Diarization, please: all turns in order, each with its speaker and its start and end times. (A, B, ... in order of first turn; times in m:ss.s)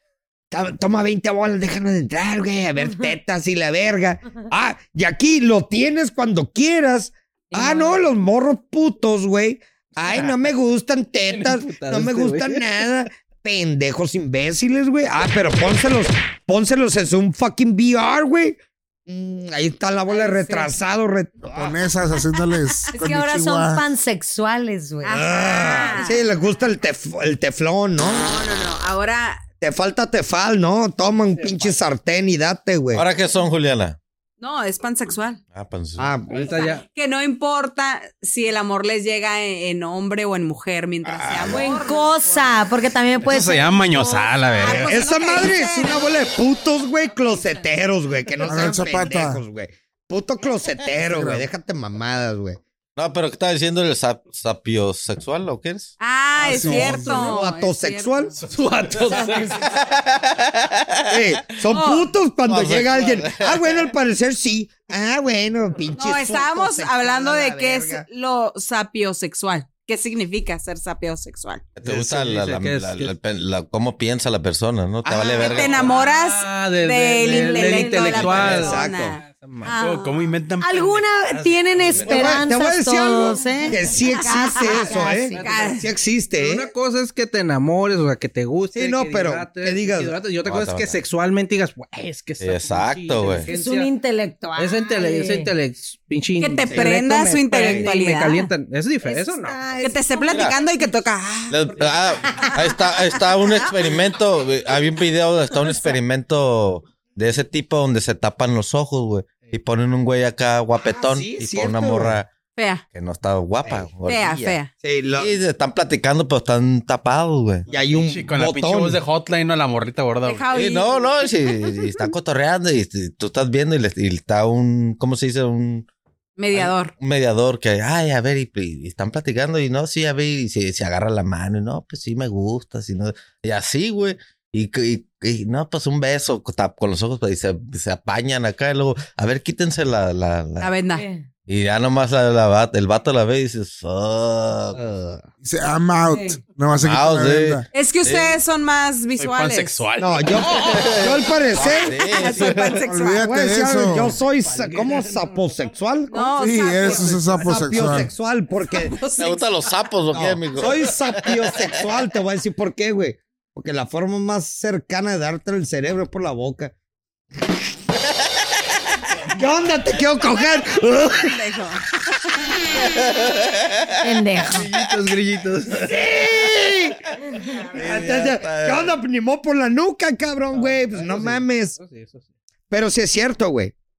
0:00.5-0:21.7 A
0:07.5-0:08.0 B
0:11.3-0:12.7 C
0:20.1-0:20.7 D
0:21.5-0:23.8 E
0:22.9-0:26.1 B
0:25.0-0:26.2 D
0:25.1-0:28.3 A
0:28.2-0:29.4 D
0:29.6-0:33.0 A
0:32.9-0:34.0 F
0:34.4-0:35.4 D
0:35.5-0:36.2 F
0:36.0-0:36.6 A
0:36.3-0:36.8 C
0:36.7-0:42.5 D
0:41.1-0:41.6 F
0:41.5-0:44.3 B
0:43.2-0:44.9 G
0:44.2-0:46.0 D
0:44.6-0:52.6 A
0:48.4-0:49.4 E
0:51.0-0:51.5 E
0:53.0-0:55.9 F
0:56.0-0:58.3 D
0:56.4-0:57.2 E
0:56.4-0:58.4 A
0:58.4-0:59.6 C
0:59.1-0:59.4 A
0:59.1-0:59.4 B
0:59.6-1:01.2 F
1:01.1-1:08.0 A
1:01.7-1:02.1 D
1:02.5-1:03.9 F
1:06.0-1:11.7 D
1:11.8-1:15.9 F
1:11.8-1:13.1 C
1:15.0-1:15.9 A
1:15.4-1:20.2 D
1:15.8-1:19.8 C
1:17.4-1:18.1 B
1:18.0-1:19.2 A
1:18.2-1:18.5 F
1:19.8-1:21.0 G
1:20.6-1:25.5 B
1:21.3-1:22.3 C
1:22.0-1:26.7 A
1:24.9-1:25.8 C
1:25.4-1:25.8 D
1:26.3-1:33.9 C
1:28.7-1:30.2 A
1:30.4-1:31.0 F
1:32.4-1:33.5 F
1:33.4-1:35.5 B
1:34.6-1:39.6 C
1:36.4-1:38.5 D
1:36.7-1:37.0 A
1:39.0-1:40.9 B
1:39.8-1:41.8 D
1:41.5-1:52.3 F
1:42.2-1:42.6 B
1:50.9-1:52.2 A
1:52.6-1:52.8 D
1:52.9-1:54.6 F
1:53.6-1:53.9 A
1:54.0-1:54.7 D
1:54.8-1:55.4 A
1:55.2-1:57.7 F
1:57.7-1:59.0 A
1:57.9-2:00.5 G
2:00.2-2:02.0 D
2:00.5-2:05.8 F
2:06.4-2:06.9 D
2:06.5-2:20.7 F
2:20.6-2:21.0 D
2:21.0-2:21.2 B
2:21.5-2:24.8 F
2:24.7-2:25.2 A
2:25.4-2:27.6 E
2:26.1-2:26.4 B
2:26.8-2:28.4 F
2:27.7-2:29.7 D
2:29.2-2:30.8 G
2:30.0-2:32.0 A
2:30.6-2:32.8 F
2:32.0-2:33.3 D
2:32.8-2:34.2 E
2:33.1-2:36.3 A
2:34.2-2:35.5 C
2:36.1-2:37.6 D
2:36.3-2:38.1 E
2:36.8-2:37.9 C
2:37.4-2:39.0 A
2:38.9-2:39.5 D
2:39.2-2:41.8 F
2:40.1-2:46.7 A
2:49.3-2:51.3 A
2:51.1-2:51.8 D
2:52.9-2:54.0 F
2:54.0-2:54.7 B
2:54.5-2:56.1 C
2:55.8-2:57.0 A
2:57.7-3:01.8 A
2:57.8-2:59.0 F
3:00.5-3:02.3 C
3:02.7-3:03.7 A